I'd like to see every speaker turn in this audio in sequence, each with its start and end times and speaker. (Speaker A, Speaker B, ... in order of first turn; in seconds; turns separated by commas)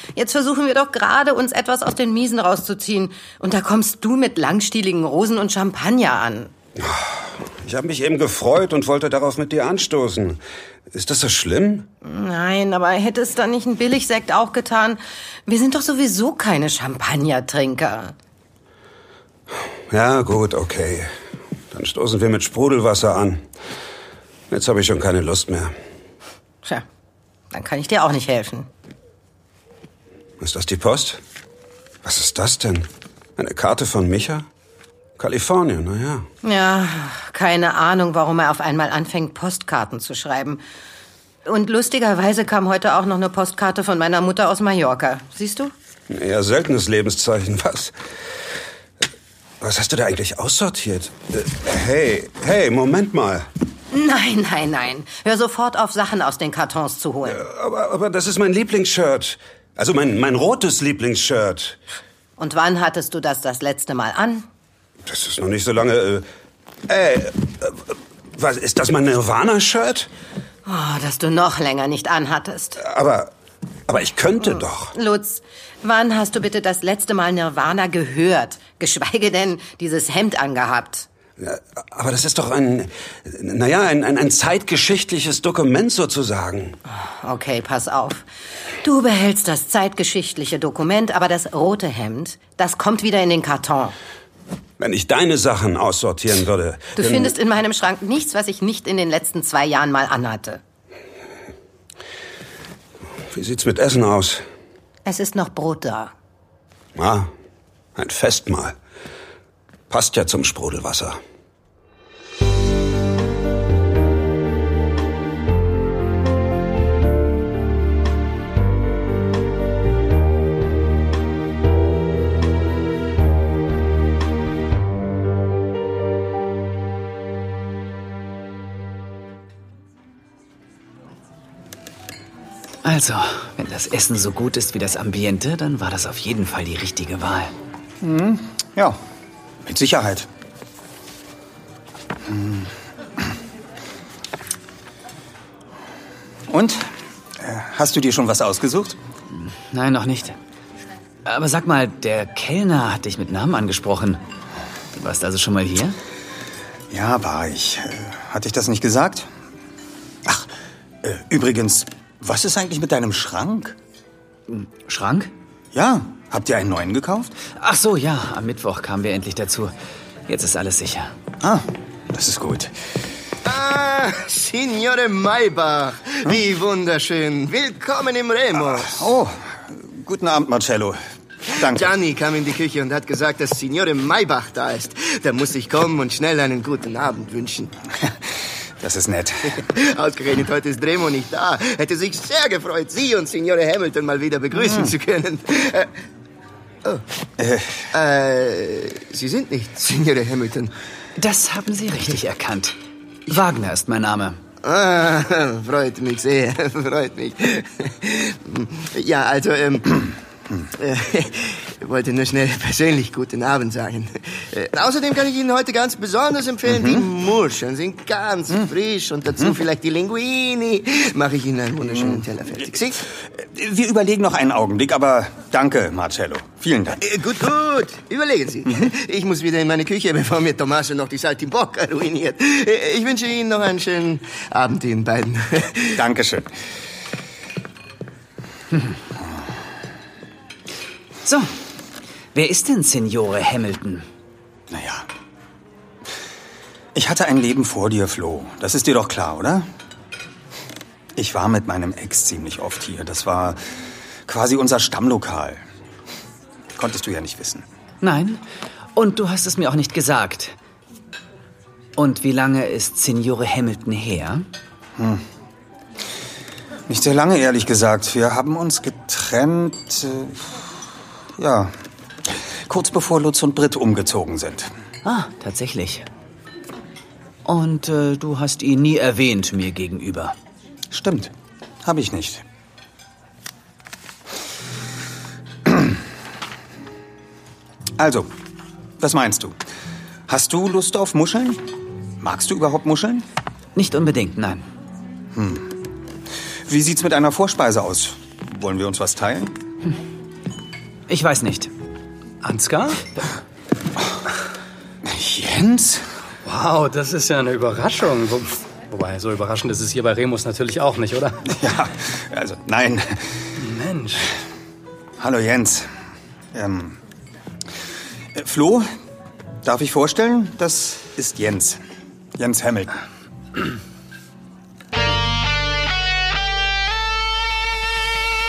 Speaker A: 0.2-6.5, Speaker B: 6.8-11.9, Speaker A: 12.0-18.1, Speaker B: 19.9-21.1, Speaker B: 21.7-23.5, Speaker B: 24.5-25.8, Speaker A: 27.5-28.7, Speaker B: 30.4-31.2, Speaker B: 32.0-34.5, Speaker B: 35.2-36.3, Speaker A: 36.4-40.6, Speaker A: 41.5-45.7, Speaker B: 46.1-48.0, Speaker B: 49.6-53.5, Speaker A: 53.9-57.4, Speaker B: 57.3-61.8, Speaker A: 62.4-64.5, Speaker B: 65.1-66.3, Speaker B: 66.9-70.1, Speaker A: 70.7-72.8, Speaker B: 72.8-73.3, Speaker B: 73.9-74.9, Speaker A: 74.9-81.1, Speaker B: 81.4-86.8, Speaker A: 86.9-88.2, Speaker A: 88.8-94.0, Speaker B: 94.8-97.3, Speaker A: 97.0-100.6, Speaker B: 103.3-104.5, Speaker A: 105.0-106.1, Speaker B: 107.0-107.3, Speaker B: 108.0-108.8, Speaker B: 109.9-111.2, Speaker C: 132.8-137.5, Speaker D: 138.0-139.0, Speaker D: 139.6-140.3, Speaker D: 142.2-142.7, Speaker D: 146.5-146.9, Speaker D: 147.4-149.0, Speaker C: 149.3-150.4, Speaker C: 151.3-154.2, Speaker C: 154.9-156.0, Speaker D: 156.9-159.3, Speaker D: 161.0-163.8, Speaker C: 164.5-165.3, Speaker D: 165.7-167.3, Speaker C: 167.6-169.7, Speaker C: 170.3-171.1, Speaker D: 171.4-172.7, Speaker E: 173.4-179.1, Speaker D: 178.9-181.0, Speaker D: 181.6-181.9, Speaker E: 181.6-187.7, Speaker D: 188.8-189.6, Speaker E: 189.4-195.9, Speaker D: 194.6-194.9, Speaker D: 197.4-197.8, Speaker E: 197.9-200.7, Speaker C: 201.2-202.8, Speaker C: 203.3-204.4, Speaker E: 204.6-209.9, Speaker E: 210.8-223.0, Speaker D: 216.7-217.1, Speaker D: 223.4-227.0, Speaker E: 227.0-236.0, Speaker D: 236.0-236.5, Speaker C: 241.2-241.5, Speaker C: 242.3-244.1, Speaker D: 244.7-245.1, Speaker D: 246.9-249.7, Speaker D: 251.2-253.6, Speaker D: 254.3-255.6, Speaker D: 256.7-257.6, Speaker C: 258.0-258.4, Speaker C: 258.9-260.6, Speaker C: 262.0-264.5, Speaker D: 265.0-265.2, Speaker D: 266.9-270.6, Speaker D: 271.4-271.8, Speaker D: 272.3-274.7, Speaker C: 275.1-276.1, Speaker C: 277.5-280.4, Speaker D: 280.9-281.3, Speaker D: 281.8-282.4, Speaker D: 285.7-285.9, Speaker D: 288.0-288.3, Speaker D: 289.0-289.6, Speaker D: 290.3-291.6, Speaker D: 292.2-293.3, Speaker C: 293.8-294.7, Speaker D: 295.3-295.7, Speaker D: 296.7-299.5, Speaker C: 301.1-301.7, Speaker F: 302.4-303.0, Speaker D: 305.0-306.1, Speaker F: 306.4-311.4, Speaker D: 311.5-313.4, Speaker F: 313.6-314.2, Speaker D: 315.2-315.9, Speaker D: 316.5-317.0, Speaker D: 318.4-318.9, Speaker D: 319.6-321.8, Speaker D: 322.4-322.9